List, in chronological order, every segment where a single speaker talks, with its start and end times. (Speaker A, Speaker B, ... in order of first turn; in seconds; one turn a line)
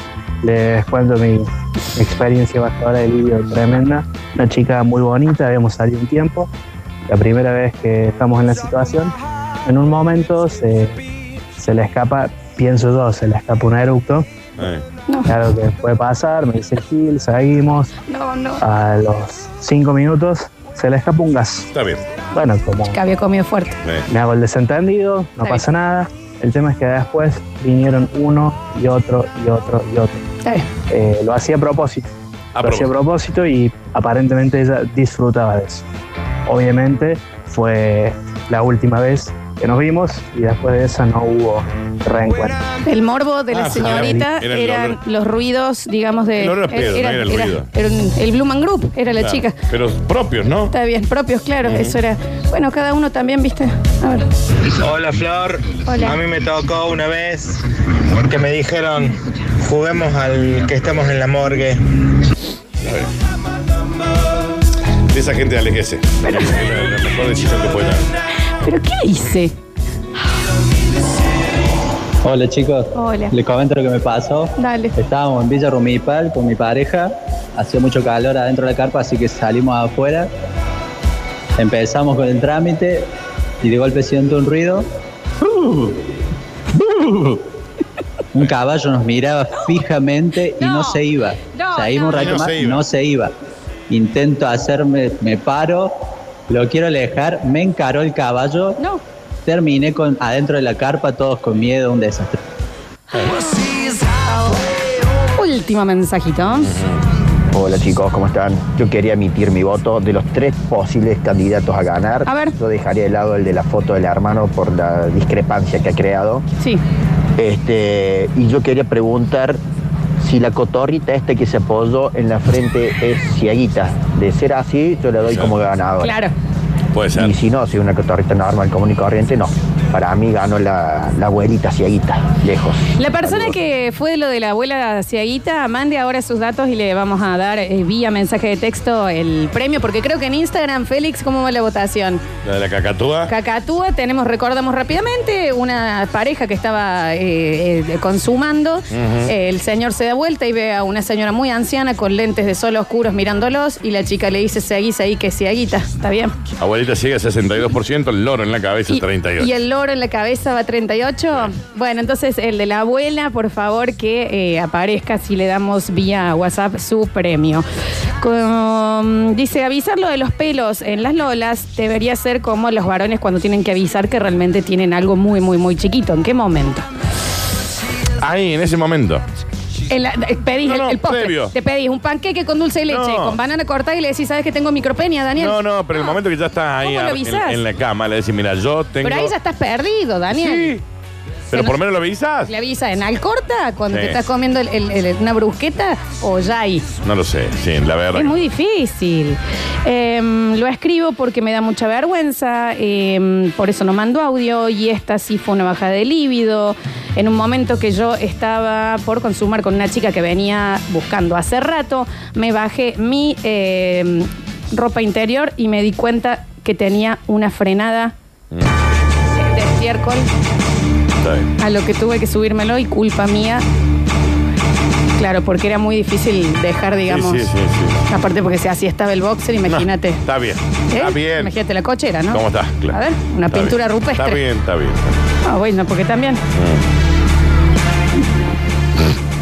Speaker A: 0.4-6.5
Speaker A: 7.1-9.1
Speaker A: 9.7-11.0
Speaker A: 11.6-14.3
Speaker B: 14.6-14.8
Speaker C: 15.1-15.3
Speaker A: 15.3-17.9
Speaker C: 18.1-18.6
Speaker A: 18.6-21.7
Speaker B: 21.7-22.0
Speaker A: 22.3-23.0
Speaker C: 22.9-23.8
Speaker A: 24.1-30.2
Speaker A: 30.9-32.1
Speaker B: 32.5-32.9
Speaker A: 32.6-35.8
Speaker A: 36.5-42.6
Speaker C: 42.9-49.6
Speaker B: 43.5-45.0
Speaker A: 43.9-44.2
Speaker B: 46.4-47.7
Speaker B: 49.2-50.7
Speaker C: 50.7-54.3
Speaker B: 51.6-52.0
Speaker D: 54.8-61.8
Speaker C: 55.9-56.2
Speaker B: 62.8-63.1
Speaker B: 65.1-68.1
Speaker C: 66.2-66.5
Speaker C: 68.6-69.5
Speaker E: 72.2-80.3
Speaker C: 72.9-73.3
Speaker C: 74.6-74.9
Speaker E: 81.6-83.1
Speaker E: 83.6-84.9
Speaker E: 85.4-86.0
Speaker E: 86.8-87.5
Speaker E: 88.3-93.3
Speaker C: 89.5-89.8
Speaker C: 90.6-91.0
Speaker C: 91.5-92.4
Speaker B: 92.1-92.9
Speaker E: 93.9-96.0
Speaker E: 96.5-98.8
Speaker E: 99.5-102.4
Speaker C: 103.2-103.4
Speaker C: 105.4-106.7
Speaker B: 106.5-107.0
Speaker F: 107.5-116.5
Speaker C: 112.3-112.5
Speaker F: 117.4-119.6
Speaker F: 120.2-126.2
Speaker B: 125.2-125.6
Speaker C: 126.0-126.3
Speaker B: 126.9-127.4
Speaker F: 127.2-133.6
Speaker C: 133.0-142.2
Speaker B: 142.4-143.3
Speaker C: 143.3-156.4
Speaker B: 148.9-149.3
Speaker B: 156.6-159.5
Speaker C: 158.9-167.6
Speaker C: 168.2-176.9
Speaker B: 178.2-179.2
Speaker C: 179.9-186.2
Speaker B: 180.7-181.5
Speaker B: 182.9-183.4
Speaker B: 185.4-189.3
Speaker C: 186.8-187.6
Speaker C: 189.0-190.8
Speaker B: 190.3-190.8
Speaker B: 191.5-192.5
Speaker C: 191.5-191.8
Speaker C: 192.5-196.9
Speaker B: 193.9-194.2
Speaker B: 197.0-198.4
Speaker C: 198.2-218.2
Speaker C: 219.4-220.3
Speaker B: 221.2-221.5
Speaker C: 221.6-223.7
Speaker C: 225.2-227.5
Speaker B: 227.1-228.1
Speaker C: 228.1-230.2
Speaker B: 229.7-231.6
Speaker C: 230.9-234.4
Speaker B: 232.3-235.2
Speaker C: 235.4-236.4
Speaker B: 236.5-236.8